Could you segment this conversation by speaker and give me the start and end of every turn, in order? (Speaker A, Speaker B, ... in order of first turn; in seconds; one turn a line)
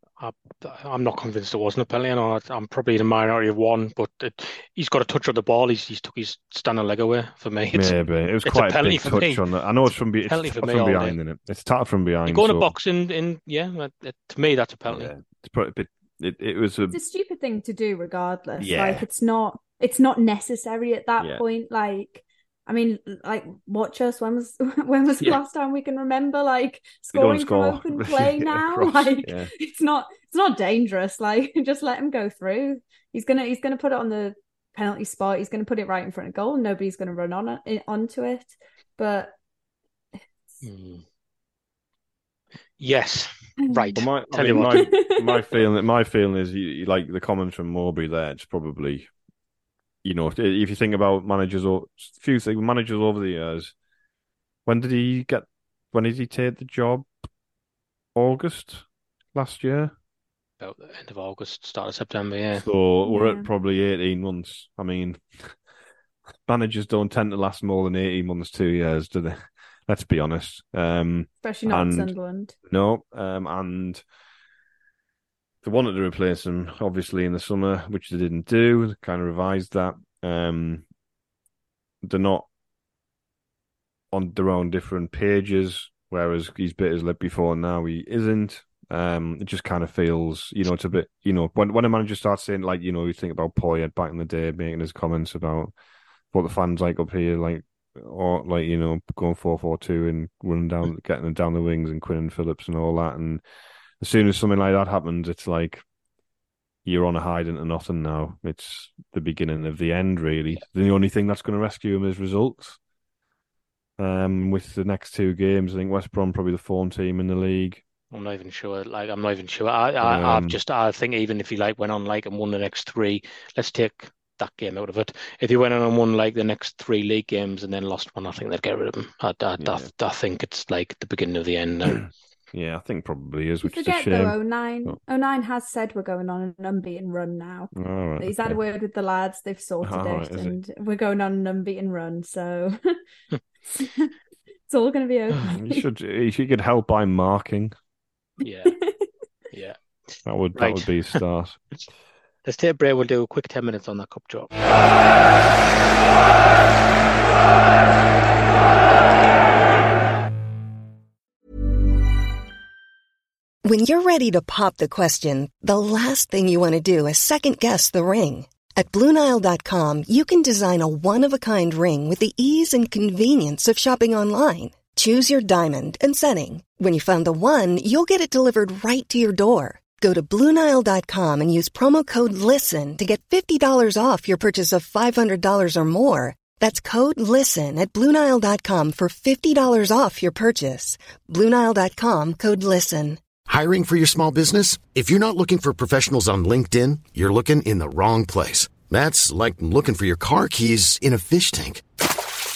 Speaker A: 0.2-9.4
Speaker B: 7.7-12.7
Speaker A: 10.2-11.2
Speaker A: 12.3-15.1
Speaker B: 14.9-17.0
Speaker C: 16.9-39.4
Speaker B: 18.6-19.1
Speaker B: 27.1-29.5
Speaker A: 40.6-41.0
Speaker A: 42.8-44.9
Speaker B: 44.0-49.1
Speaker C: 44.6-45.3
Speaker B: 50.0-53.7
Speaker B: 54.7-57.1
Speaker B: 58.1-59.9
Speaker A: 60.6-62.7
Speaker B: 62.5-65.5
Speaker C: 63.0-63.5
Speaker B: 66.5-72.1
Speaker C: 71.4-72.5
Speaker B: 72.7-74.0
Speaker B: 75.6-80.8
Speaker B: 82.0-82.5
Speaker B: 84.1-95.7
Speaker B: 96.3-103.4
Speaker B: 104.0-105.8
Speaker B: 106.8-112.8
Speaker B: 114.0-117.8
Speaker A: 118.1-132.1
Speaker B: 120.0-120.6
Speaker B: 129.6-129.9
Speaker B: 132.5-135.0
Speaker C: 133.6-143.0
Speaker B: 137.7-138.6
Speaker B: 139.8-140.6
Speaker C: 143.7-144.1
Speaker C: 144.7-145.8
Speaker B: 145.5-147.8
Speaker A: 148.4-148.8
Speaker C: 148.8-149.1
Speaker A: 149.5-149.8
Speaker B: 150.3-151.6
Speaker A: 150.6-151.2
Speaker A: 152.4-154.5
Speaker D: 163.7-193.2
Speaker E: 193.5-201.8